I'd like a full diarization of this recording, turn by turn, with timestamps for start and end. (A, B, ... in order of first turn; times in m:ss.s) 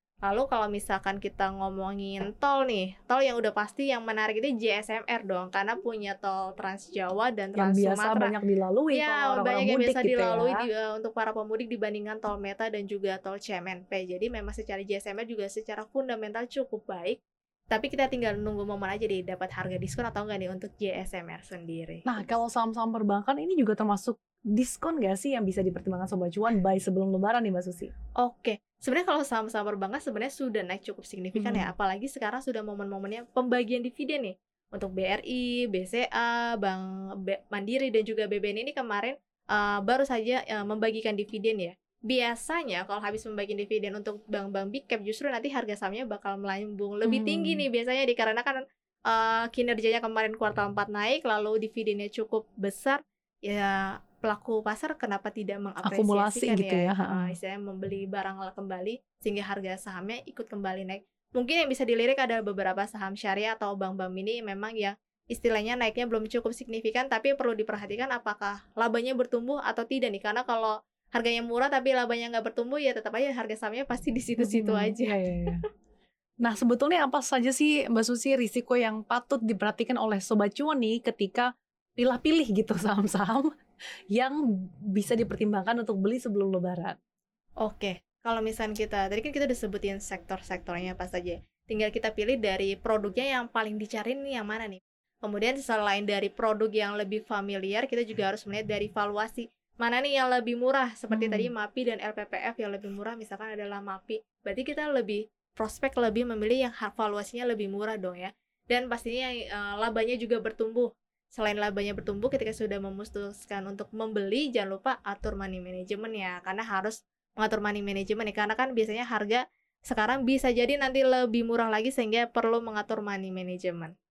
0:00.2-0:08.3 A
0:07.6-0:10.6 B
0:08.9-0:17.2 A
0:17.7-0:22.3 A
0:22.1-0:27.9 B
0:28.2-1:15.5 A
0:31.4-0:31.7 B
0:47.0-0:47.6 B
0:55.9-0:57.3 B
1:14.4-1:15.6 B
1:16.4-1:23.5 B
1:24.1-1:24.4 B
1:24.9-1:27.0 B
1:27.6-2:03.9 A
1:41.1-1:41.5 B